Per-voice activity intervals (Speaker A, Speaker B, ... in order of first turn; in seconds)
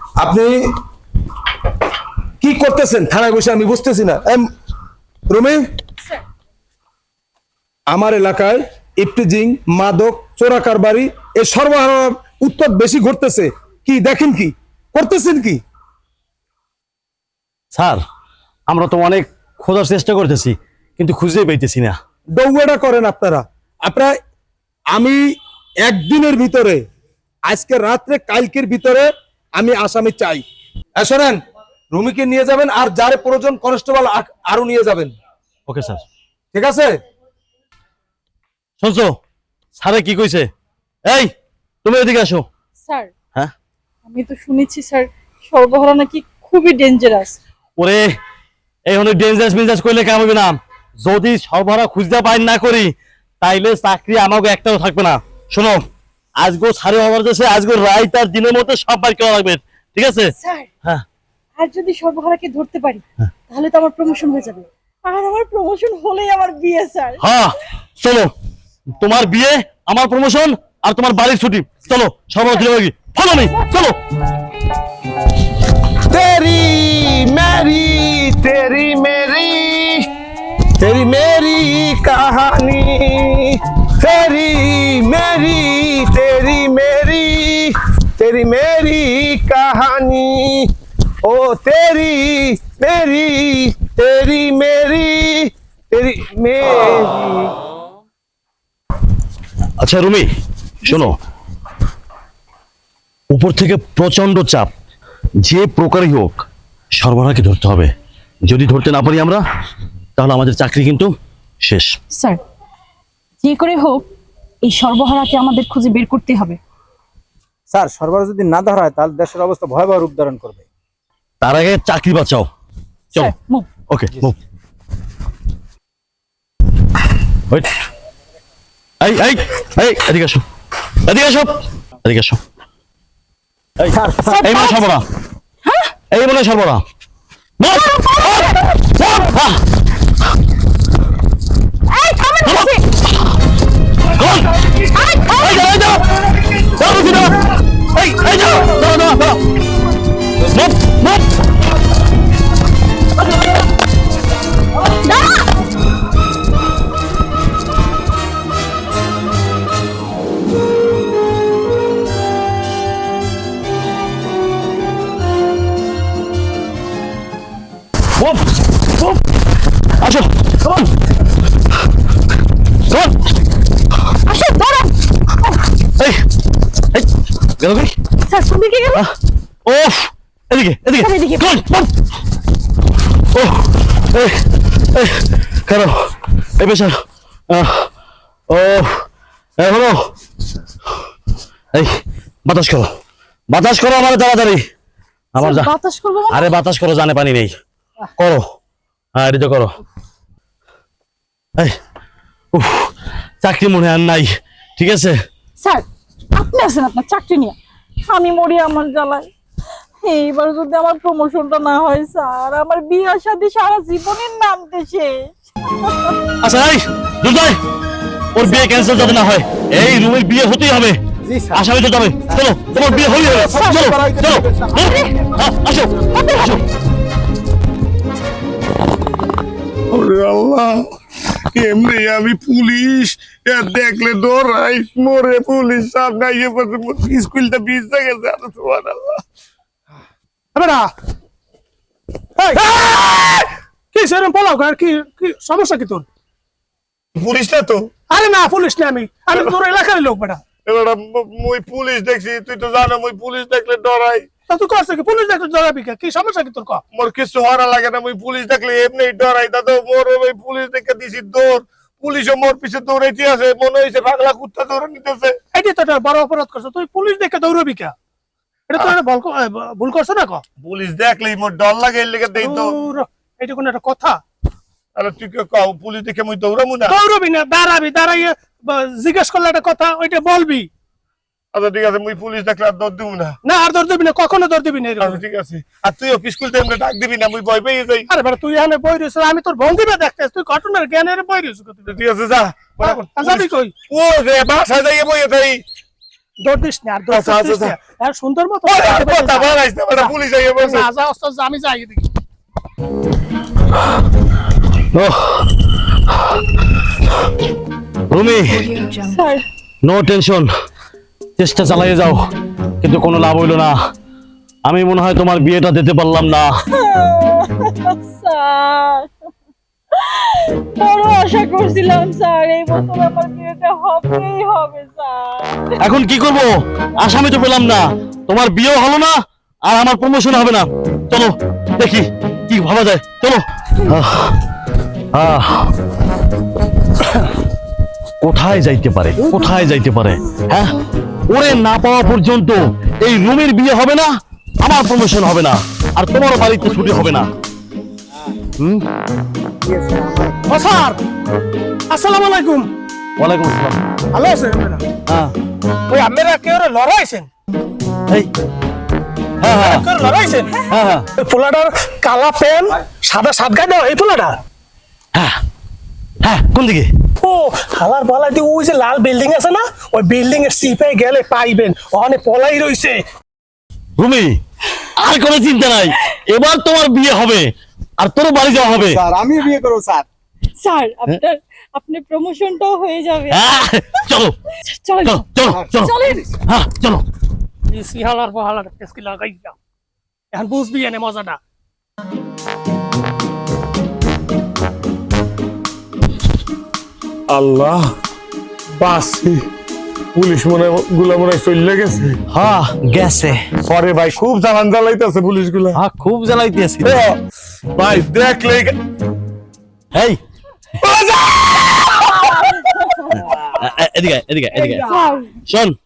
Speaker A: 0.2-0.5, 2.4-4.5, 5.3-5.6, 7.9-15.6, 22.4-24.1, 24.9-25.2, 25.8-26.8, 27.5-30.4, 31.0-31.4, 31.9-35.1, 36.5-36.9
Speaker B: 17.7-18.0, 18.7-22.0, 35.7-36.0, 38.8-39.1, 39.8-40.5, 41.1-41.3, 41.8-42.5, 47.8-48.1, 48.9-55.8, 56.4-60.3, 67.2-68.3, 69.0-74.0, 99.8-100.3, 100.8-101.2, 103.3-104.7, 105.4-106.4, 107.0-107.9, 108.4-109.4, 110.2-111.1, 111.6-112.0, 121.4-122.5, 123.9-124.4, 129.0-130.4, 131.1-132.4, 133.8-135.0, 136.1-136.8, 137.6-139.6, 142.4-143.3, 144.1-144.6, 145.4-149.4, 150.4-151.3, 168.2-169.2, 170.0-170.9, 172.9-173.2, 176.0-176.2, 177.6-177.9, 179.7-181.9, 183.3-187.0, 187.5-187.9, 188.5-189.1, 189.6-190.0, 192.5-192.9, 193.5-194.6, 195.4-195.7, 196.3-197.5, 198.2-198.4, 199.2-199.7, 202.5-205.1, 216.4-217.6, 218.3-221.0, 221.5-226.6, 304.9-305.5, 308.1-308.8, 309.8-310.5, 311.4-312.2, 312.8-313.8, 314.7-316.5, 325.8-329.1, 329.7-334.4, 335.1-335.7, 338.2-340.8, 341.3-347.3, 348.6-348.9, 353.2-353.8, 355.1-355.3, 359.4-359.9, 360.7-361.1, 365.1-365.4, 366.2-366.9, 374.0-374.4, 375.0-377.5, 378.0-379.0, 383.3-384.4, 385.1-386.0, 386.5-387.0, 402.3-403.5, 405.7-407.0, 409.9-410.2, 413.2-414.9, 415.5-415.8
Speaker C: 42.9-43.1, 44.0-47.4, 60.4-60.7, 61.6-67.2, 112.1-112.4, 113.4-114.1, 114.6-116.6, 123.1-123.7, 134.2-134.9, 135.6-135.9, 137.7-138.6, 141.9-142.8, 144.9-145.7, 154.9-155.5, 174.2-175.5, 178.2-179.0, 181.0-181.6, 195.4-196.6, 205.6-209.3, 210.0-216.2, 218.4-219.1, 223.4-224.0, 224.7-225.3, 226.1-226.5, 308.9-309.4, 316.7-319.1, 320.0-325.7, 380.6-383.4, 384.6-386.3, 412.0-413.4, 414.6-415.4
Speaker D: 76.1-80.1, 80.8-90.7, 91.2-97.3, 229.9-230.9, 231.5-239.2, 242.6-243.5, 247.2-247.9, 250.7-254.3, 256.9-265.3, 270.6-272.6, 275.0-277.0, 281.5-283.4, 285.1-288.1, 291.9-295.6, 297.1-297.8, 298.7-300.9, 397.3-397.9, 398.8-399.5, 400.1-402.2, 403.6-405.8, 406.8-407.2, 407.8-408.8, 410.8-412.1
Speaker E: 117.7-120.7, 221.2-221.7, 222.3-222.9, 223.8-224.2, 349.6-350.3, 378.8-380.1, 385.5-386.2
Speaker F: 240.6-240.9, 242.4-242.8, 243.9-246.1, 248.1-250.4, 254.5-256.8, 265.5-267.9, 268.7-270.4, 272.4-274.2, 276.9-280.7, 283.4-285.2, 288.1-291.9, 292.8-293.7, 296.4-302.1, 350.5-351.0, 351.9-352.7, 354.1-354.9, 355.9-357.3, 359.5-360.6, 361.2-364.4, 367.2-373.1, 387.7-389.6, 390.3-391.4